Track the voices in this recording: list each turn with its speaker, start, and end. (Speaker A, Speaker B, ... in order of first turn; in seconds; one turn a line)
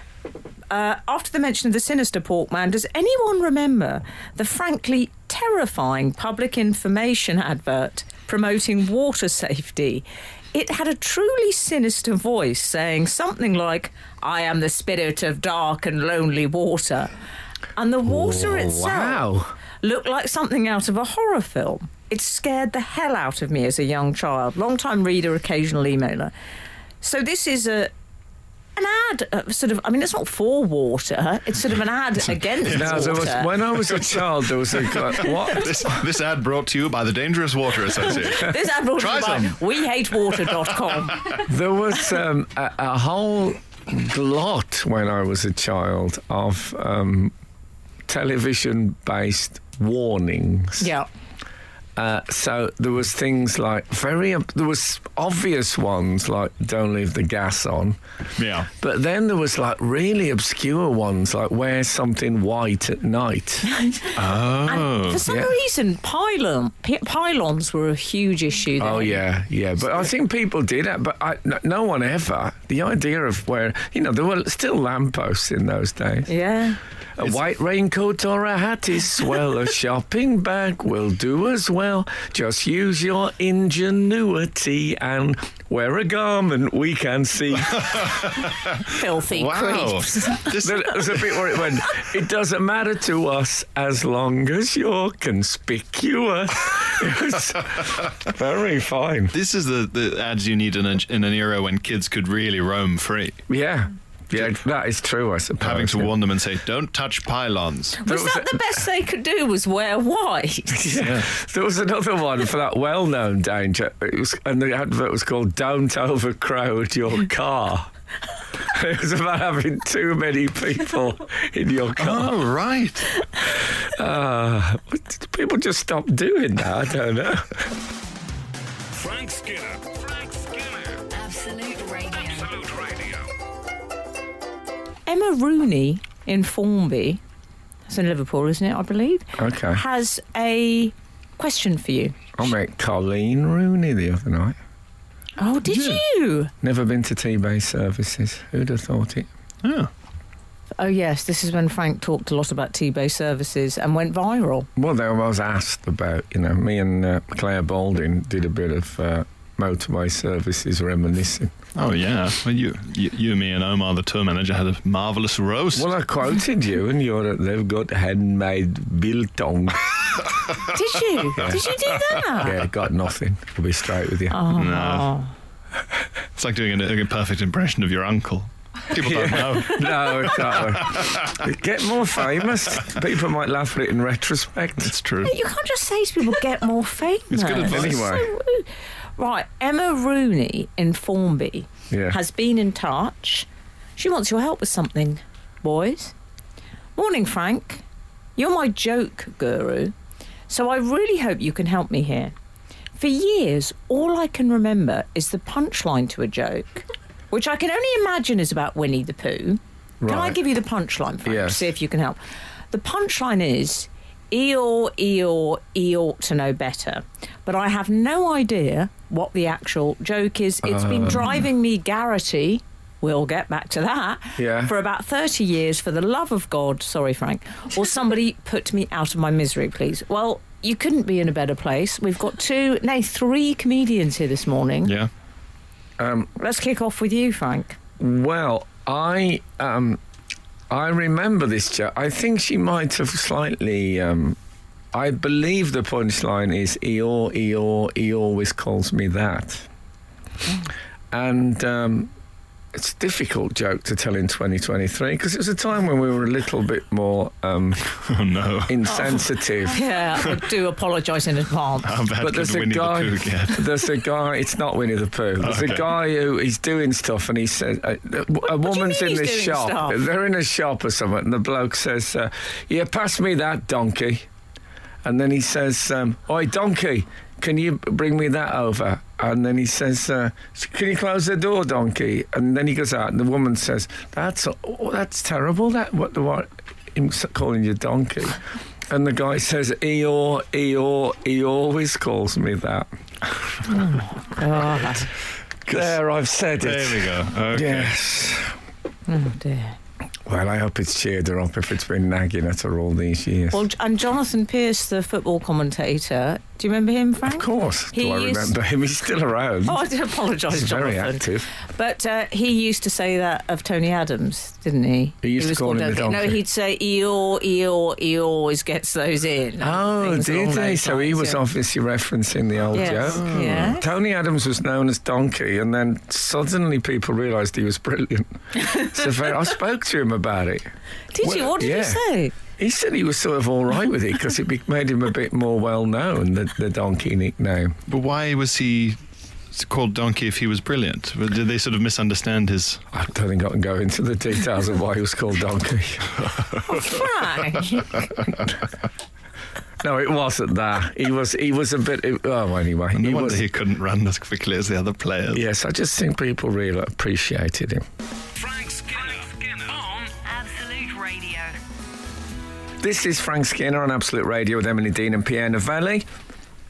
Speaker A: 0.7-17.1
Speaker A: 17.8-19.2
Speaker B: 18.1-19.5
Speaker A: 19.8-26.3
Speaker A: 27.0-27.9
Speaker A: 28.8-33.5
Speaker C: 32.6-40.6
Speaker B: 32.7-36.0
Speaker A: 38.1-41.4
Speaker B: 41.5-47.3
Speaker B: 48.1-50.9
Speaker A: 50.8-51.1
Speaker B: 52.0-58.0
Speaker C: 58.4-58.7
Speaker B: 58.8-63.7
Speaker A: 63.7-64.1
Speaker C: 64.2-65.2
Speaker A: 64.7-69.2
Speaker B: 65.3-65.5
Speaker B: 68.8-76.3
Speaker A: 76.3-76.8
Speaker B: 77.2-88.1
Speaker C: 87.9-91.6
Speaker A: 88.9-90.5
Speaker B: 90.6-99.3
Speaker C: 99.3-103.4
Speaker B: 103.5-106.1
Speaker C: 105.6-108.0
Speaker A: 108.0-110.9
Speaker B: 108.1-108.6
Speaker B: 110.7-117.9
Speaker C: 111.0-111.3
Speaker B: 118.6-122.4
Speaker C: 122.0-123.2
Speaker B: 123.4-127.7
Speaker D: 128.9-131.0
Speaker E: 131.1-132.6
Speaker D: 132.1-133.3
Speaker A: 135.1-137.2
Speaker A: 137.9-142.2
Speaker B: 139.4-139.8
Speaker B: 142.4-144.6
Speaker A: 145.4-146.5
Speaker C: 145.7-146.0
Speaker B: 146.6-149.3
Speaker C: 149.6-149.9
Speaker A: 150.8-154.7
Speaker B: 154.8-161.6
Speaker C: 161.8-165.9
Speaker B: 165.7-170.2
Speaker A: 170.7-172.6
Speaker B: 171.4-171.7
Speaker B: 172.4-174.5
Speaker A: 174.3-175.3
Speaker C: 174.5-175.1
Speaker C: 176.4-181.4
Speaker B: 178.9-184.9
Speaker C: 184.8-185.3
Speaker A: 185.2-196.1
Speaker C: 187.3-188.1
Speaker B: 187.7-188.3
Speaker B: 191.9-192.2
Speaker A: 197.0-197.8
Speaker A: 198.4-199.9
Speaker A: 200.5-202.3
Speaker A: 203.0-212.2
Speaker B: 210.0-210.4
Speaker B: 211.2-211.7
Speaker A: 212.7-234.9
Speaker B: 220.6-221.4
Speaker B: 224.4-224.7
Speaker C: 234.8-235.1
Speaker B: 236.0-236.3
Speaker A: 236.4-237.8
Speaker B: 238.0-240.0
Speaker B: 240.7-244.4
Speaker B: 244.9-249.7
Speaker B: 251.1-252.1
Speaker B: 252.7-258.0
Speaker C: 258.1-259.1
Speaker B: 258.7-259.9
Speaker A: 259.7-261.9
Speaker C: 261.8-263.6
Speaker B: 262.2-274.3
Speaker C: 265.4-265.9
Speaker A: 268.5-270.0
Speaker B: 275.0-292.9
Speaker A: 293.7-295.1
Speaker B: 295.7-298.5
Speaker C: 296.6-297.9
Speaker A: 299.1-299.8
Speaker B: 300.3-303.6
Speaker A: 303.5-308.5
Speaker B: 307.3-309.9
Speaker A: 309.7-321.4
Speaker B: 310.5-311.5
Speaker B: 315.2-316.4
Speaker B: 319.6-330.7
Speaker A: 322.7-323.9
Speaker C: 323.1-323.7
Speaker A: 331.1-332.4
Speaker B: 331.2-337.8
Speaker C: 337.9-339.0
Speaker C: 339.5-342.8
Speaker B: 342.9-346.2
Speaker A: 346.6-348.1
Speaker B: 349.8-353.4
Speaker C: 352.9-355.4
Speaker B: 355.3-357.9
Speaker D: 358.4-360.1
Speaker E: 360.1-361.6
Speaker B: 362.8-366.1